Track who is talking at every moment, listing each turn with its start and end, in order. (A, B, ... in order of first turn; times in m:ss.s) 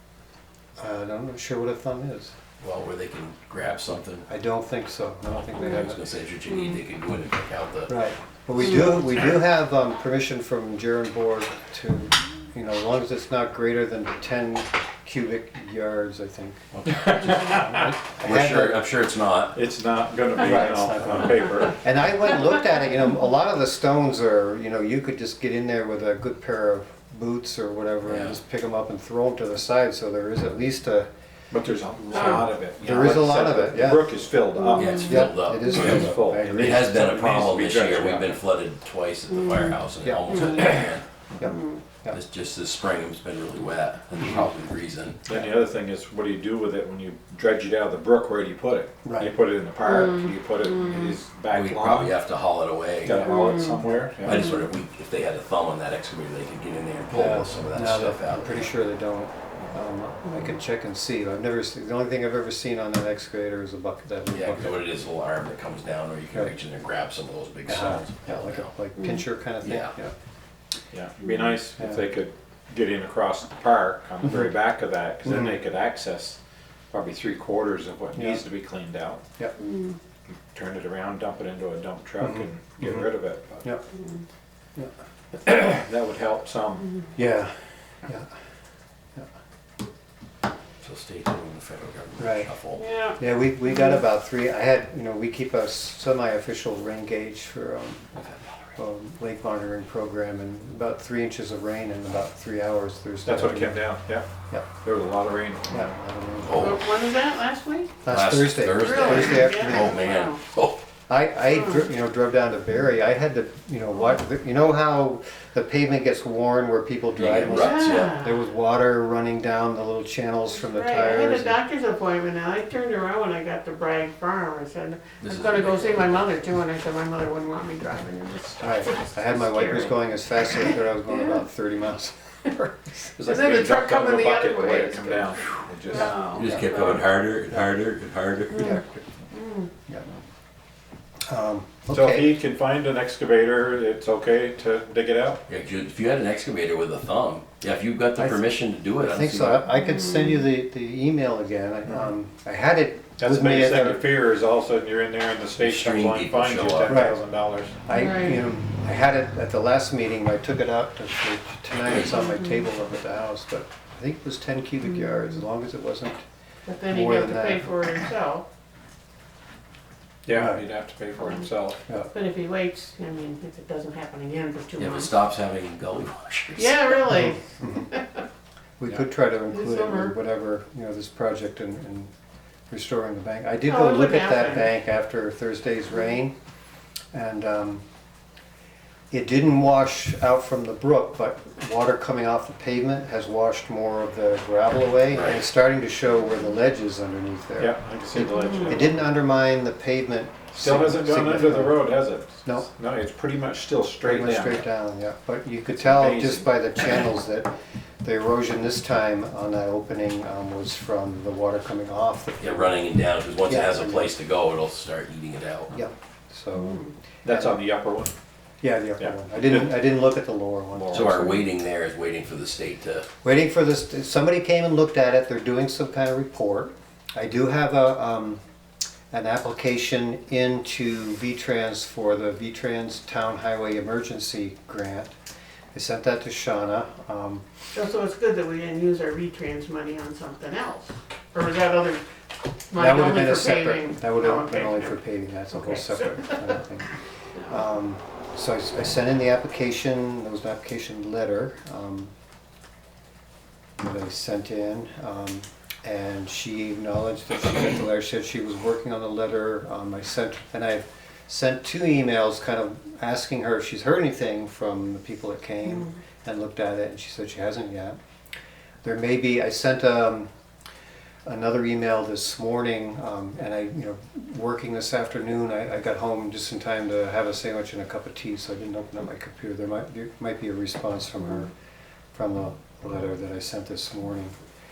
0:00.8-0:02.3 A
0:02.6-0:04.3 B
0:04.3-0:06.0 A
0:05.6-0:08.0 B
0:07.9-0:16.6 A
0:16.7-0:19.6 B
0:17.2-0:17.7 C
0:17.4-0:18.8 A
0:19.5-0:21.8 C
0:20.4-0:31.1 A
0:28.0-0:28.4 B
0:31.5-0:38.4 C
0:32.1-0:32.5 D
0:32.8-0:34.3 A
0:34.8-0:41.0 B
0:34.9-0:37.2 A
0:39.3-0:39.8 D
0:40.0-0:40.8 A
0:40.3-0:40.8 D
0:41.3-0:42.2 A
0:41.4-0:41.8 D
0:42.1-0:45.2 B
0:45.2-0:52.2 C
0:49.0-0:49.3 A
0:49.8-0:51.0 D
0:51.5-0:53.5 B
0:53.0-0:54.5 C
0:53.3-0:54.6 D
0:54.2-0:58.7 B
0:57.1-1:04.8 A
1:04.3-1:08.7 B
1:07.7-1:10.1 A
1:09.0-1:09.2 D
1:09.6-1:10.0 B
1:10.9-1:16.4 C
1:11.8-1:12.0 A
1:15.2-1:15.6 A
1:16.9-1:19.2 C
1:18.2-1:18.4 A
1:19.4-1:19.7 A
1:19.6-1:20.0 D
1:20.5-1:23.7 C
1:22.2-1:23.1 A
1:25.4-1:27.0 C
1:27.2-1:28.3 A
1:30.8-1:32.8 B
1:32.2-1:32.5 A
1:32.8-1:33.2 D
1:33.2-1:38.1 A
1:38.8-1:43.9 A
1:43.2-1:44.3 C
1:44.8-1:45.9 C
1:45.7-1:46.8 A
1:46.4-1:46.9 B
1:46.6-1:48.0 D
1:48.0-1:50.0 A
1:48.1-1:50.8 B
1:48.8-1:50.4 D
1:51.1-2:01.6 A
1:51.5-1:51.9 D
1:57.2-1:58.2 B
1:57.5-1:58.4 D
2:00.5-2:11.5 D
2:05.2-2:06.4 B
2:08.6-2:12.9 A
2:13.2-2:16.2 C
2:13.2-2:16.9 D
2:16.0-2:18.8 B
2:18.5-2:19.7 D
2:18.6-2:19.0 A
2:21.3-2:22.3 A
2:21.9-2:25.4 C
2:25.5-2:29.6 B
2:28.2-2:28.4 A
2:29.0-2:34.0 A
2:29.8-2:30.3 D
2:33.2-2:37.8 C
2:35.6-2:37.0 B
2:36.9-2:37.2 A
2:37.8-2:46.2 A
2:37.9-2:38.4 D
2:42.2-2:42.6 D
2:44.8-2:45.3 D
2:46.7-2:48.4 D
2:46.9-2:47.8 A
2:50.2-2:51.8 C
2:50.3-2:50.6 A
2:52.1-2:55.2 D
2:54.8-2:57.1 B
2:56.6-2:58.2 D
2:57.6-2:57.9 A
2:58.8-3:02.1 A
2:59.5-3:00.1 D
3:02.7-3:06.3 A
3:03.6-3:04.7 D
3:07.1-3:07.8 A
3:09.1-3:22.7 A
3:17.6-3:19.0 C
3:18.4-3:18.8 D
3:20.6-3:24.6 C
3:24.0-3:27.5 A
3:25.8-3:26.5 C
3:28.0-3:32.8 A
3:32.4-3:35.7 B
3:33.4-3:34.1 A
3:35.7-3:37.6 A
3:36.6-3:36.9 D
3:37.2-3:38.1 C
3:38.6-3:41.3 A
3:39.0-3:39.8 C
3:40.7-3:41.4 C
3:40.9-3:43.1 B
3:43.2-3:48.4 A
3:49.1-3:55.1 A
3:55.7-3:57.4 A
3:57.7-4:02.0 D
4:02.7-4:04.9 D
4:02.8-4:06.9 A
4:05.5-4:06.4 D
4:07.5-4:12.1 A
4:13.8-4:28.0 A
4:28.8-4:30.3 A
4:31.2-4:41.5 A
4:42.1-4:44.4 A